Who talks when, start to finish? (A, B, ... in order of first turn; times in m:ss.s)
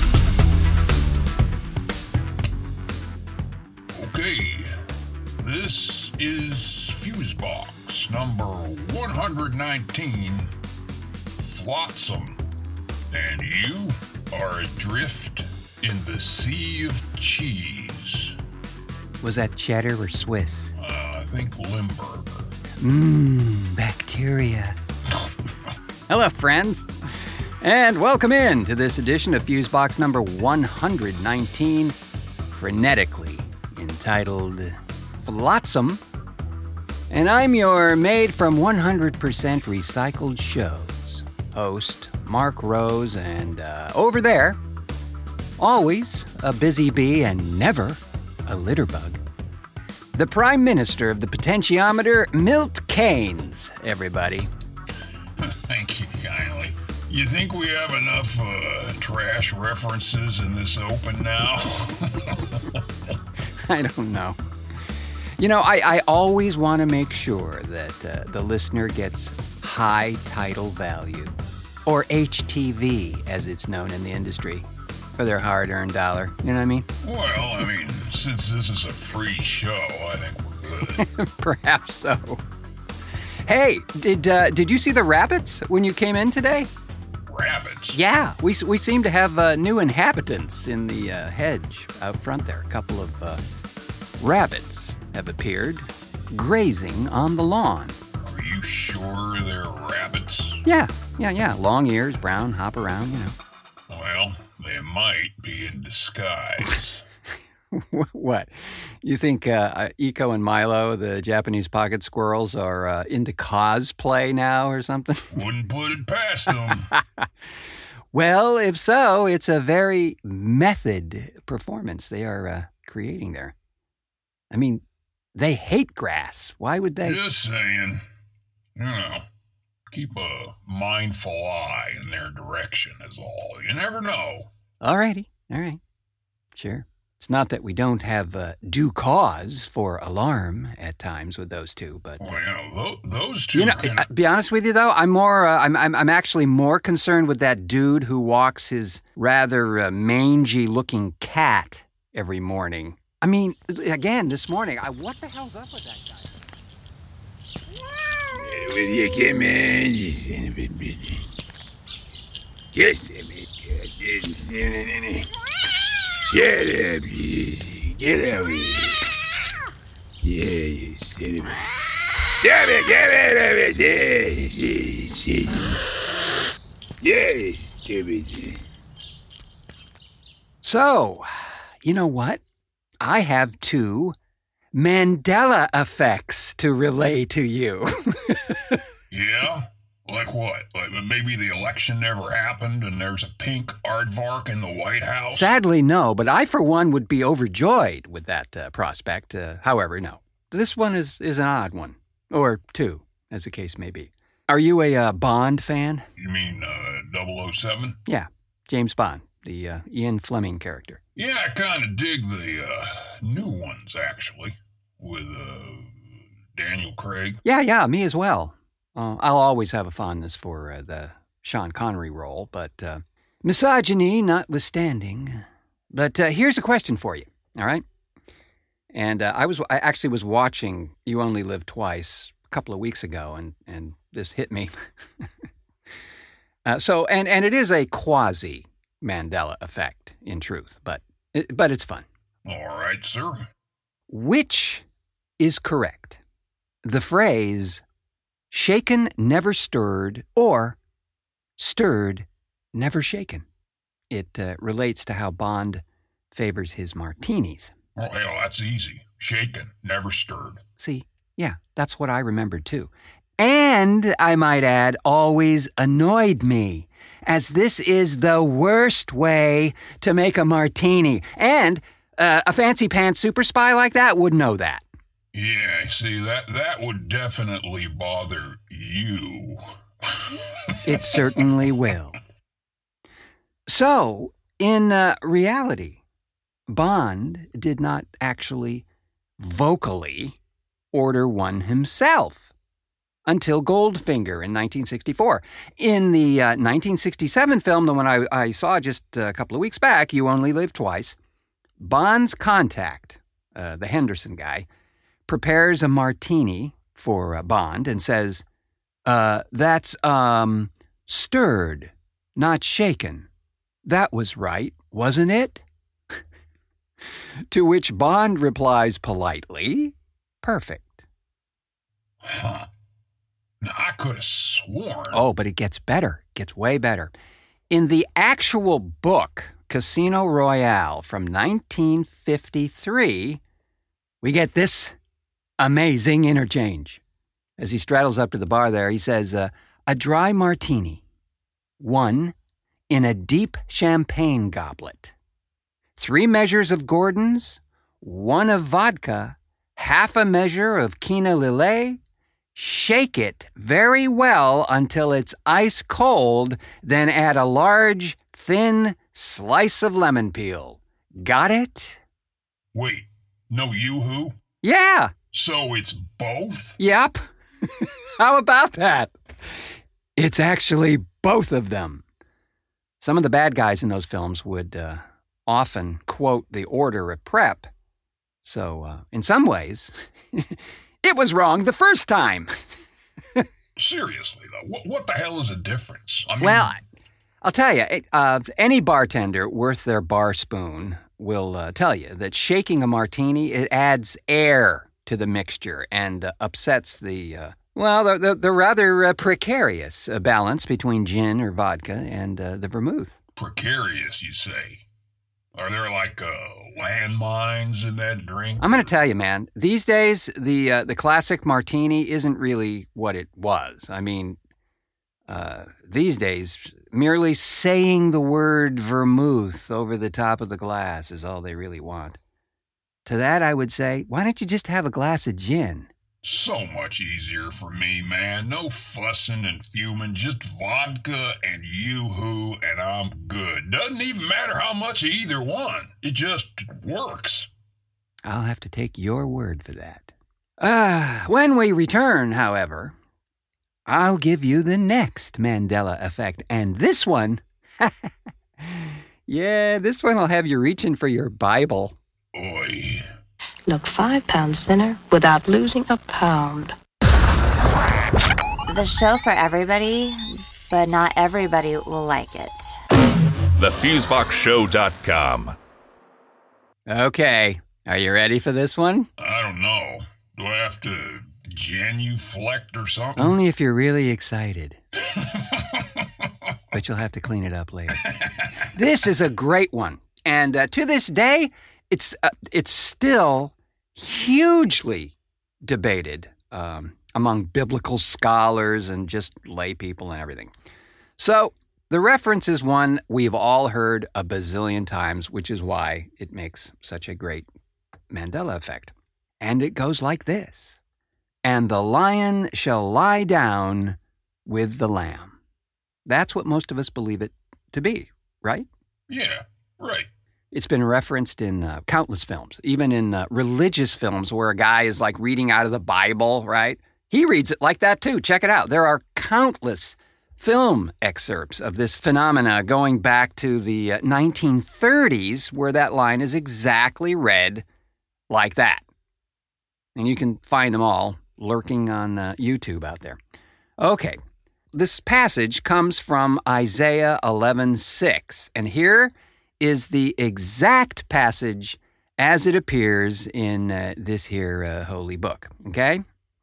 0:03.9-0:04.7 A
0:05.4-0:10.5 A
0:11.4-0:12.4 A
0:13.1-0:18.4 A
0:19.2-0:20.7 B
0:20.8-0:22.5 A
0:22.8-0:24.8 B
0:26.1-0:26.9 B
0:27.6-0:32.0 B
0:32.5-0:36.0 B
0:37.1-0:44.6 B
0:45.6-0:49.2 B
0:50.2-0:54.5 B
0:55.4-1:03.1 A
1:03.6-1:04.4 B
1:05.4-1:11.4 B
1:11.9-1:14.6 B
1:15.2-1:16.9 B
1:17.0-1:21.0 A
1:21.0-1:22.4 B
1:23.5-1:26.7 B
1:27.3-1:28.0 A
1:27.9-1:33.4 B
1:34.2-1:38.0 B
1:38.2-1:40.6 A
1:40.6-1:43.4 B
1:43.9-1:47.1 A
1:47.7-1:55.4 B
1:55.3-1:56.9 A
1:58.1-2:03.6 B
2:04.5-2:04.8 B
2:05.4-2:07.2 B
2:07.0-2:08.0 A
2:08.8-2:09.3 A
2:09.9-2:14.5 A
2:14.8-2:15.8 B
2:16.6-2:22.3 B
2:22.2-2:24.1 A
2:23.5-2:36.4 B
2:38.4-2:41.2 C
2:42.7-2:45.2 C
2:46.3-2:48.9 C
2:50.2-2:51.6 C
2:52.4-2:55.6 C
2:57.0-2:58.5 C
3:00.6-3:01.3 B
3:01.8-3:02.4 B
3:03.0-3:04.2 B
3:04.7-3:08.8 B
3:09.1-3:15.5 A
3:15.3-3:26.1 B
3:26.2-3:28.0 A
3:28.1-3:31.0 B
3:31.2-3:37.4 A
3:37.4-3:47.8 B
3:48.9-3:54.7 B
3:56.7-4:02.1 B
4:02.4-4:03.5 A
4:04.1-4:04.8 B
4:05.4-4:06.2 B
4:06.8-4:07.8 B
4:08.5-4:10.8 B
4:11.6-4:13.4 B
4:14.1-4:17.7 B
4:18.0-4:20.6 A
4:20.8-4:34.8 B
4:35.3-4:41.5 A
4:40.8-4:42.2 B
4:43.7-4:46.0 B
4:46.7-4:48.8 B
4:49.4-4:50.4 B
4:50.9-4:52.5 B
4:53.3-5:01.2 B
5:01.8-5:04.7 B
5:05.3-5:08.4 B
5:09.1-5:13.3 B
5:13.8-5:15.6 B
5:17.5-5:21.0 B
5:22.2-5:22.7 A
5:23.6-5:25.2 A
5:25.1-5:27.1 B
5:27.7-5:33.4 B
5:34.2-5:35.0 B
5:35.6-5:37.0 B
5:37.6-5:41.0 B
5:41.8-5:42.4 B
5:42.9-5:45.1 B
5:46.0-5:52.0 B
5:52.6-6:02.0 B
6:02.7-6:04.4 A
6:04.6-6:05.1 B
6:05.3-6:06.8 A
6:06.8-6:09.1 B
6:10.2-6:12.0 B
6:13.0-6:17.7 B
6:18.4-6:22.5 B
6:23.8-6:26.7 A
6:26.4-6:26.8 B
6:27.4-6:43.2 B
6:43.4-6:44.8 A
6:45.6-6:48.9 A
6:48.6-6:54.4 B
6:55.3-7:02.2 B
7:03.1-7:05.9 B
7:06.2-7:17.5 A
7:18.2-7:23.0 B
7:23.9-7:28.1 B
7:28.6-7:32.0 B
7:32.3-7:33.1 A
7:33.7-7:36.8 D
7:38.7-7:42.8 E
7:43.6-7:45.6 C
7:46.9-7:49.1 B
7:49.2-7:53.4 A
7:53.2-7:54.8 B
7:55.1-7:56.6 A
7:56.7-7:58.0 B
7:58.0-7:58.5 A
7:58.6-8:10.5 B
8:11.2-8:17.5 B
8:18.1-8:20.8 B
8:21.4-8:25.4 B
8:26.1-8:28.7 B
8:29.1-8:30.1 A
8:30.5-8:47.6 B
8:48.3-8:48.8 B
8:50.0-8:53.2 B
8:53.8-8:54.2 B
8:54.7-9:06.0 B